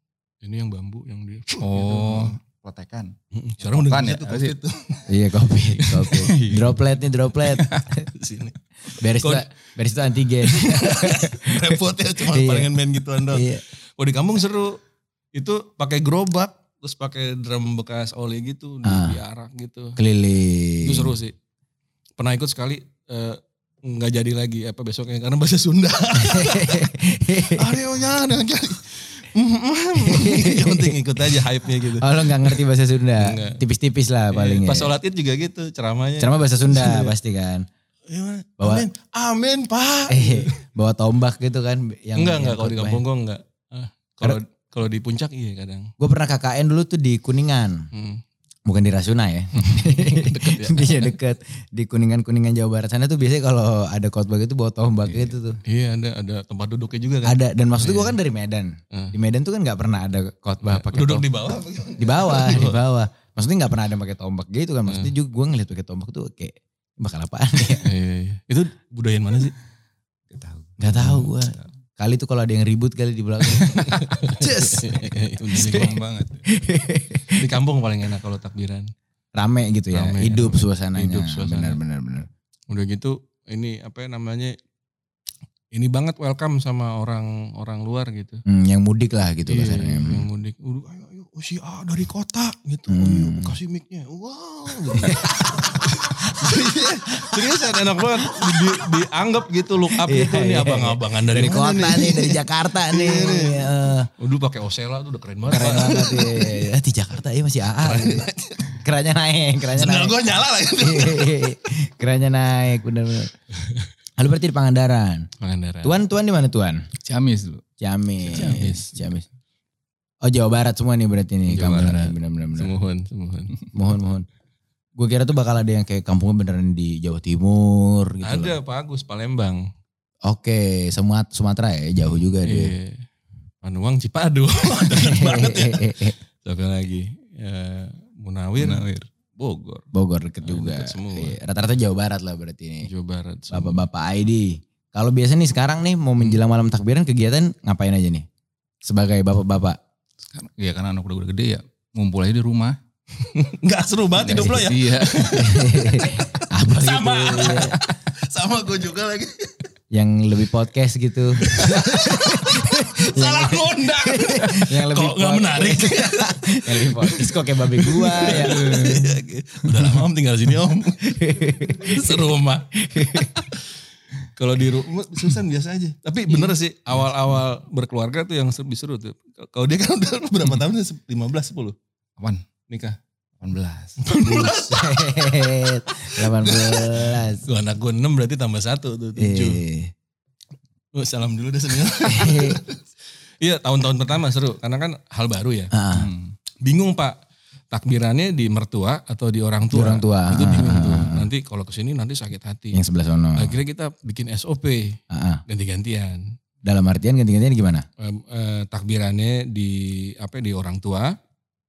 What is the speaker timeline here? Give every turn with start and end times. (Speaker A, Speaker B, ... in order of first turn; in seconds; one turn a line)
Speaker A: 0.4-2.4
Speaker B: 1.6-4.5
Speaker A: 3.3-5.1
Speaker C: 5.1-8.1
Speaker A: 5.8-6.1
Speaker B: 6.0-6.8
Speaker B: 7.5-7.9
Speaker A: 8.1-9.4
Speaker C: 9.0-12.7
Speaker A: 10.4-13.5
Speaker C: 13.3-13.6
Speaker A: 14.0-14.8
Speaker A: 15.3-20.0
Speaker C: 18.9-19.2
Speaker C: 20.0-21.1
Speaker A: 20.8-21.4
Speaker A: 22.2-32.6
Speaker C: 26.1-27.8
Speaker C: 30.1-34.9
Speaker A: 33.2-33.6
Speaker A: 34.3-37.1
Speaker C: 36.2-37.7
Speaker A: 38.1-40.6
Speaker C: 38.6-38.9
Speaker C: 40.1-43.0
Speaker A: 42.2-45.9
Speaker C: 46.0-47.9
Speaker A: 47.9-48.2
Speaker C: 48.7-55.6
Speaker A: 49.6-51.1
Speaker B: 55.1-55.4
Speaker A: 55.7-58.2
Speaker C: 57.2-61.3
Speaker A: 60.6-62.8
Speaker C: 62.0-67.9
Speaker A: 64.9-65.1
Speaker A: 67.8-69.5
Speaker B: 70.3-71.7
Speaker C: 70.8-74.8
Speaker A: 73.7-76.0
Speaker B: 75.5-76.5
Speaker C: 75.6-75.9
Speaker C: 76.5-77.4
Speaker A: 77.3-78.9
Speaker C: 79.4-82.3
Speaker A: 79.9-81.8
Speaker A: 82.7-84.5
Speaker A: 85.7-88.4
Speaker C: 88.5-90.3
Speaker A: 89.5-106.6
Speaker C: 92.9-93.6
Speaker C: 94.9-95.7
Speaker C: 96.3-96.6
Speaker C: 97.2-97.5
Speaker C: 98.2-98.8
Speaker C: 99.9-104.1
Speaker C: 105.5-108.3
Speaker A: 107.8-108.8
Speaker C: 108.8-110.2
Speaker A: 109.7-111.4
Speaker C: 110.8-113.3
Speaker C: 114.2-115.3
Speaker A: 115.4-116.0
Speaker C: 115.8-116.8
Speaker B: 117.0-117.6
Speaker C: 117.8-119.2
Speaker A: 118.2-118.9
Speaker C: 120.2-122.7
Speaker B: 121.5-122.1
Speaker A: 122.6-123.6
Speaker C: 123.7-124.3
Speaker C: 125.0-128.6
Speaker A: 128.2-129.7
Speaker C: 130.3-132.8
Speaker A: 132.4-133.1
Speaker A: 133.6-138.8
Speaker C: 134.9-136.2
Speaker B: 138.6-139.8
Speaker C: 139.9-142.9
Speaker A: 140.4-141.4
Speaker A: 142.9-143.8
Speaker C: 143.5-148.2
Speaker C: 148.8-149.8
Speaker B: 150.3-152.8
Speaker A: 153.2-159.6
Speaker B: 154.2-155.5
Speaker C: 155.4-157.8
Speaker C: 159.9-168.8
Speaker A: 161.4-171.1
Speaker B: 168.4-169.1
Speaker C: 171.0-173.5
Speaker A: 171.7-173.7
Speaker A: 174.4-181.8
Speaker A: 182.7-183.0
Speaker B: 183.4-184.0
Speaker A: 184.0-185.1
Speaker C: 184.2-187.4
Speaker A: 186.1-189.6
Speaker C: 189.2-189.9
Speaker A: 191.0-192.8
Speaker C: 192.1-192.6
Speaker A: 193.4-195.7
Speaker C: 195.7-196.1
Speaker B: 195.9-196.3
Speaker A: 196.6-197.2
Speaker A: 197.7-202.8
Speaker C: 199.7-201.3
Speaker C: 202.7-203.6
Speaker A: 203.4-206.3
Speaker C: 205.1-205.4
Speaker C: 206.7-207.8
Speaker A: 208.0-211.2